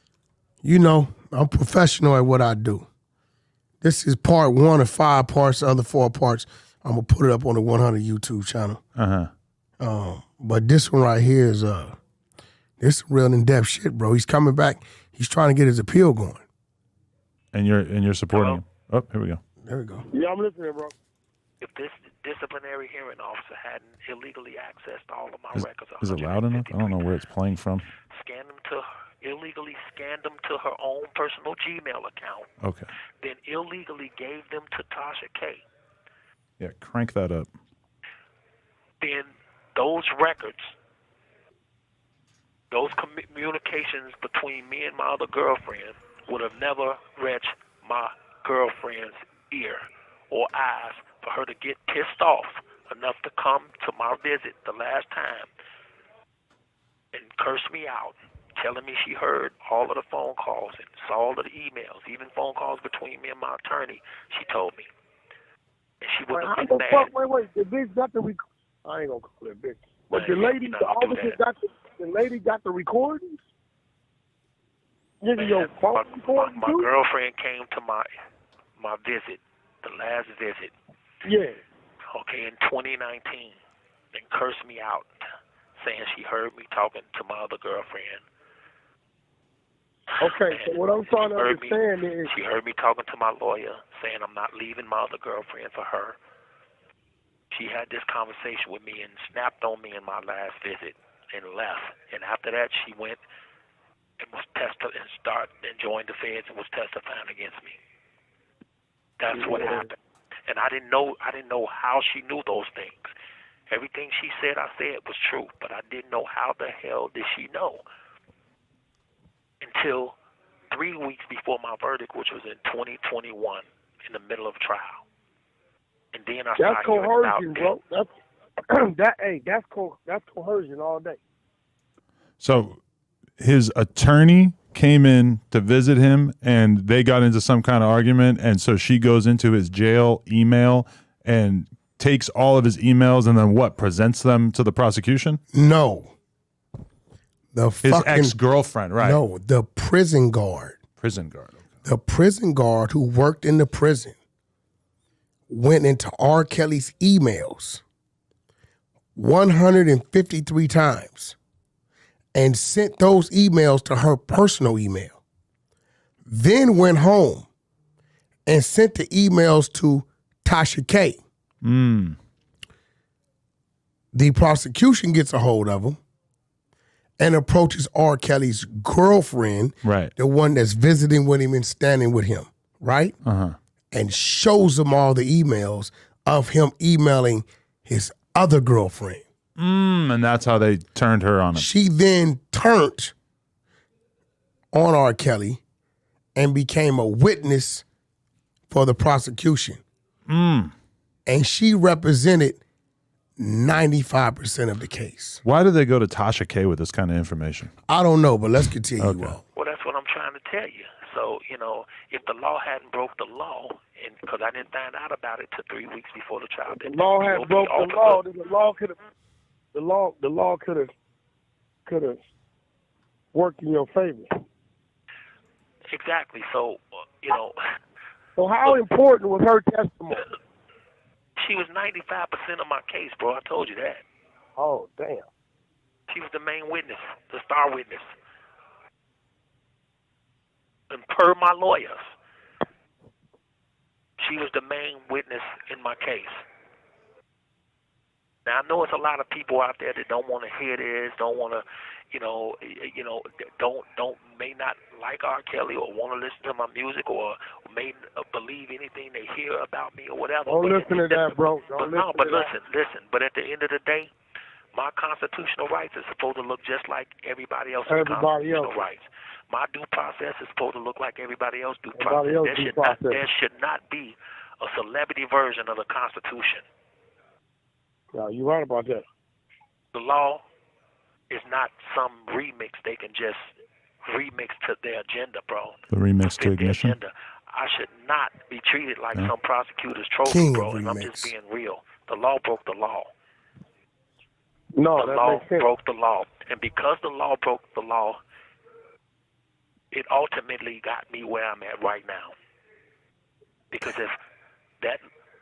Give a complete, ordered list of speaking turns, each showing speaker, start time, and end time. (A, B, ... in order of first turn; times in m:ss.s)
0:00.6-0:02.9 A
0:03.8-0:08.8 A
0:09.0-0:09.3 B
0:09.8-0:12.0 A
0:12.8-0:16.4 A
0:17.5-0:19.4 B
0:18.3-0:18.6 C
0:19.6-0:20.1 A
0:20.1-0:20.9 D
0:21.6-0:27.0 C
0:25.5-0:27.9 B
0:28.1-0:32.5 C
0:32.6-0:32.9 B
0:33.2-0:35.6 C
0:36.6-0:37.5 B
0:39.0-0:40.7 C
0:42.7-0:55.5 C
0:57.1-1:04.9 C
1:06.0-1:07.1 C
1:06.3-1:13.4 D
1:10.1-1:11.4 C
1:15.2-1:16.9 D
1:15.4-1:18.1 C
1:18.8-1:20.7 C
1:21.2-1:21.6 D
1:22.1-1:23.6 C
1:24.1-1:25.1 C
1:25.8-1:28.2 C
1:30.2-1:32.3 D
1:30.2-1:36.2 C
1:37.5-1:43.2 C
1:44.2-1:47.8 C
1:49.2-1:53.1 C
1:49.4-1:49.8 D
1:53.7-1:57.8 C
1:59.6-2:00.2 C
2:00.7-2:05.0 C
2:06.1-2:07.7 C
2:06.6-2:08.1 D
2:08.7-2:11.2 D
2:12.4-2:12.8 B
2:13.4-2:25.4 B
2:25.5-2:26.1 A
2:27.5-2:28.4 A
2:27.8-2:29.2 B
2:29.0-2:30.8 A
2:31.0-2:31.6 B
2:31.8-2:34.1 A
2:35.5-2:37.8 A
2:39.2-2:41.4 A
2:42.3-2:45.2 A
2:46.3-2:47.5 A
2:48.5-2:51.2 A
2:51.6-2:52.2 B
2:54.1-2:56.0 A
2:57.2-3:03.1 A
2:59.8-3:00.1 B
3:03.2-3:03.6 B
3:03.9-3:09.2 A
3:09.6-3:11.7 B
3:11.5-3:13.1 A
3:14.7-3:15.6 A
3:16.4-3:17.8 A
3:18.7-3:19.8 A
3:20.3-3:20.7 B
3:21.2-3:22.6 A
3:23.4-3:25.4 A
3:25.4-3:27.7 B
3:27.9-3:29.4 A
3:29.0-3:29.4 B
3:29.5-3:38.2 C
3:36.7-3:39.0 D
3:39.7-3:40.9 D
3:41.8-3:42.2 D
3:43.3-3:44.3 D
3:45.9-3:47.6 C
3:48.4-3:50.3 D
3:51.4-3:54.0 C
3:54.6-3:55.2 D
3:56.1-3:58.1 C
4:00.9-4:02.1 C
4:04.2-4:06.4 C
4:08.4-4:24.1 C
4:20.5-4:22.5 D
4:24.7-4:36.6 C
4:27.9-4:28.8 D
4:31.9-4:33.2 D
4:38.1-4:39.0 D
4:39.9-4:40.4 C
4:41.3-4:43.5 C
4:44.0-4:53.1 C
4:45.9-4:47.0 B
4:50.2-4:51.3 A
4:54.7-4:55.7 D
4:55.0-4:58.2 C
4:59.9-5:02.3 C
5:03.7-5:04.1 C